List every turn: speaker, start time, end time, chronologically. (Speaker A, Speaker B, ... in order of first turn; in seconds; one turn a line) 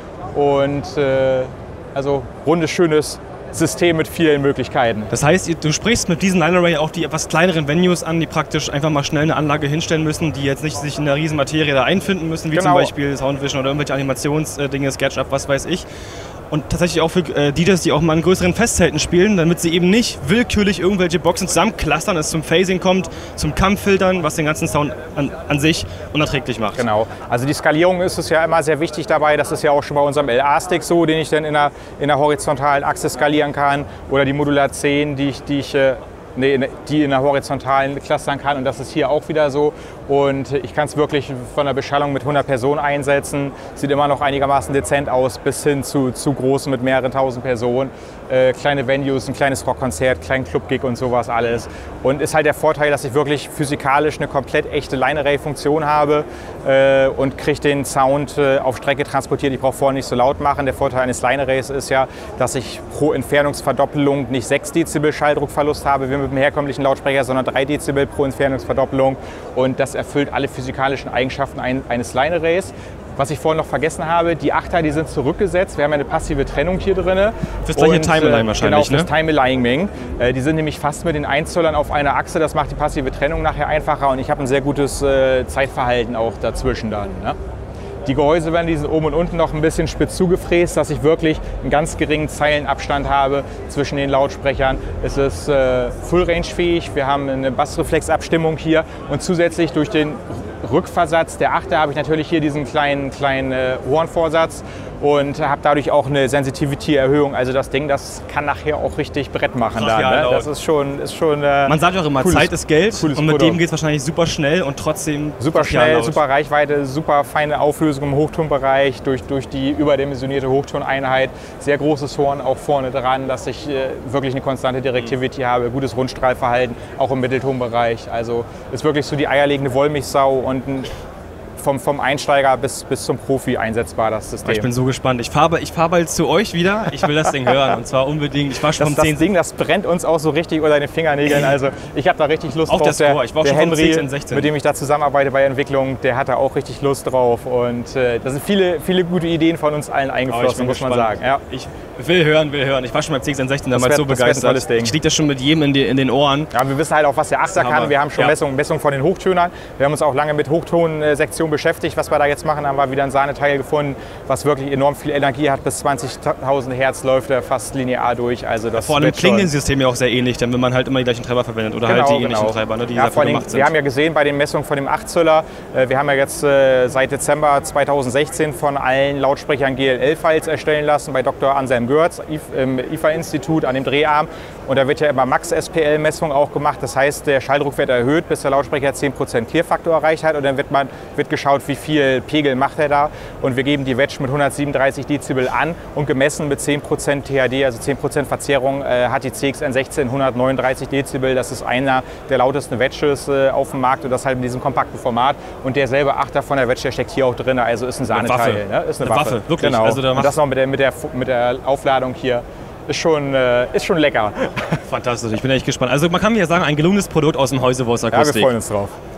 Speaker A: 0.3-5.1
Speaker B: 5.1-15.8
Speaker A: 12.5-12.9
Speaker B: 16.5-26.9
Speaker A: 26.8-87.3
Speaker B: 77.7-79.1
Speaker A: 88.0-113.6
Speaker B: 109.7-110.5
Speaker B: 111.7-116.2
Speaker A: 115.4-130.9
Speaker A: 131.6-134.7
Speaker B: 134.4-139.3
Speaker A: 138.8-151.4
Speaker B: 142.7-144.5
Speaker B: 150.3-156.5
Speaker A: 153.7-154.9
Speaker A: 156.5-169.5
Speaker B: 157.5-158.3
Speaker B: 168.8-173.7
Speaker A: 171.8-214.8
Speaker B: 208.1-210.3
Speaker B: 214.9-218.5
Speaker A: 218.1-218.9